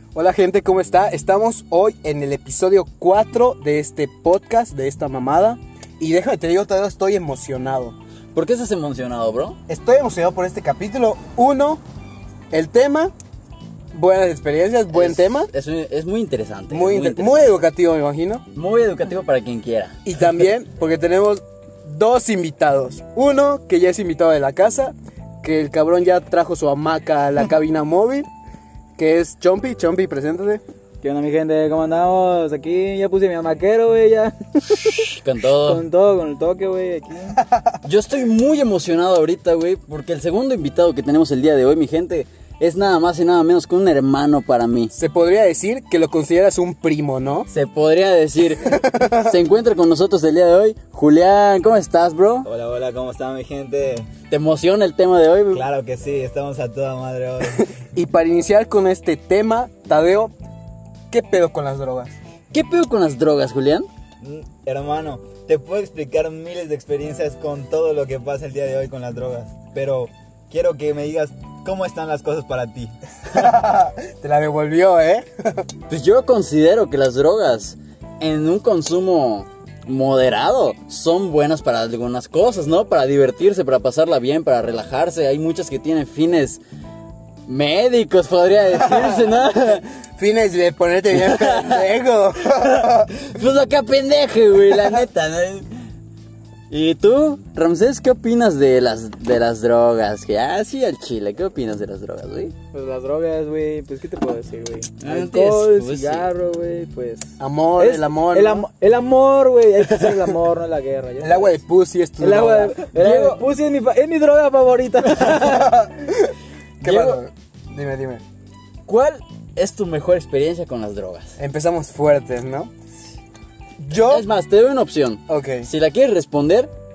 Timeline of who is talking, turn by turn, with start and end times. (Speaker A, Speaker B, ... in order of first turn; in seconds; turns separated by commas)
Speaker A: 0.1-8.0, Speaker B: 8.3-9.6, Speaker A: 9.7-11.8, Speaker A: 12.5-13.1, Speaker A: 13.9-15.5, Speaker B: 14.9-17.5, Speaker A: 16.7-18.4, Speaker B: 18.6-20.0, Speaker A: 20.1-28.3, Speaker A: 29.0-30.6, Speaker C: 31.0-35.1, Speaker B: 35.0-35.8, Speaker C: 35.6-37.4, Speaker B: 37.8-44.9, Speaker A: 44.9-47.5, Speaker B: 47.5-52.5, Speaker A: 48.6-49.4, Speaker D: 52.5-54.1, Speaker B: 54.3-55.6, Speaker D: 55.5-57.7, Speaker A: 58.0-60.3, Speaker A: 61.1-62.1, Speaker B: 62.5-63.9, Speaker D: 64.2-72.9, Speaker A: 73.3-75.7, Speaker B: 75.9-86.6, Speaker B: 87.5-89.8, Speaker A: 88.8-89.3, Speaker A: 90.2-93.1, Speaker B: 91.1-91.9, Speaker B: 92.5-95.7, Speaker B: 96.7-102.5, Speaker C: 102.7-111.5, Speaker B: 105.0-106.3, Speaker A: 107.4-108.7, Speaker A: 111.2-112.9, Speaker C: 112.2-115.9, Speaker B: 112.9-113.4, Speaker A: 115.3-118.2, Speaker B: 116.8-117.2, Speaker B: 118.9-121.4, Speaker A: 121.4-122.7, Speaker A: 123.8-124.3, Speaker B: 124.0-126.7, Speaker A: 125.3-125.7